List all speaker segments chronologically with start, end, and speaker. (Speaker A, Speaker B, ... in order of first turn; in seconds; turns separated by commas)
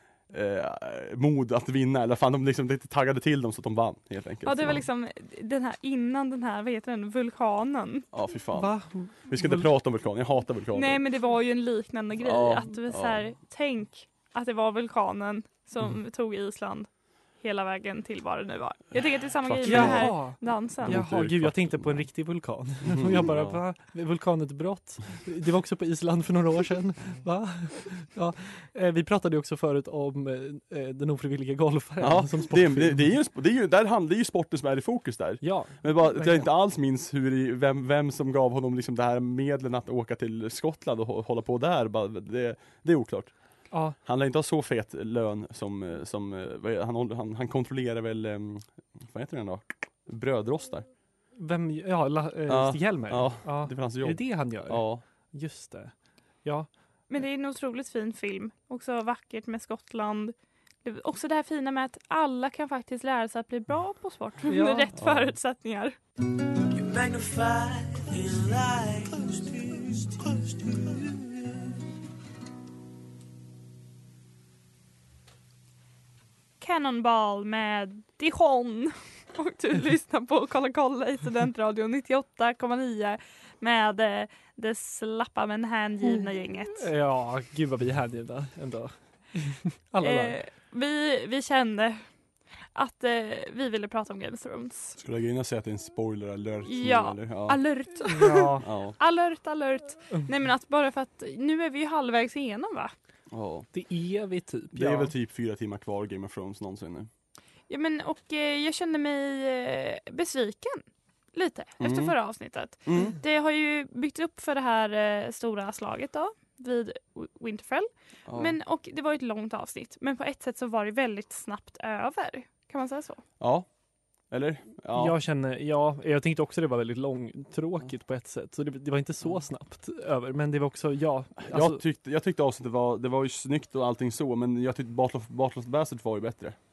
Speaker A: 0.3-4.8, Speaker B: 4.4-8.1, Speaker A: 8.1-11.0, Speaker C: 8.5-9.7, Speaker B: 10.7-16.9, Speaker A: 12.2-13.2, Speaker B: 17.4-21.0, Speaker A: 19.4-22.1, Speaker C: 19.6-33.1, Speaker A: 22.8-23.6, Speaker A: 32.0-43.3, Speaker C: 35.4-36.5, Speaker C: 43.7-44.0, Speaker A: 44.0-50.9, Speaker C: 51.3-56.7, Speaker A: 52.5-55.0, Speaker B: 57.1-66.0, Speaker C: 64.5-64.9, Speaker A: 65.0-65.3, Speaker A: 67.2-67.7, Speaker A: 68.3-68.9, Speaker B: 76.6-86.8, Speaker C: 86.7-90.4, Speaker B: 90.0-92.0, Speaker B: 92.7-95.0, Speaker A: 95.0-97.6, Speaker B: 96.7-102.9, Speaker C: 98.1-98.6, Speaker A: 98.6-98.9, Speaker A: 103.3-103.7, Speaker C: 103.7-105.1, Speaker A: 104.7-107.1, Speaker B: 107.7-110.8, Speaker B: 111.3-123.2, Speaker A: 111.8-112.1, Speaker A: 112.9-113.1, Speaker A: 118.3-118.5, Speaker A: 123.4-123.7, Speaker A: 124.3-125.2, Speaker C: 125.0-131.8, Speaker A: 131.4-136.6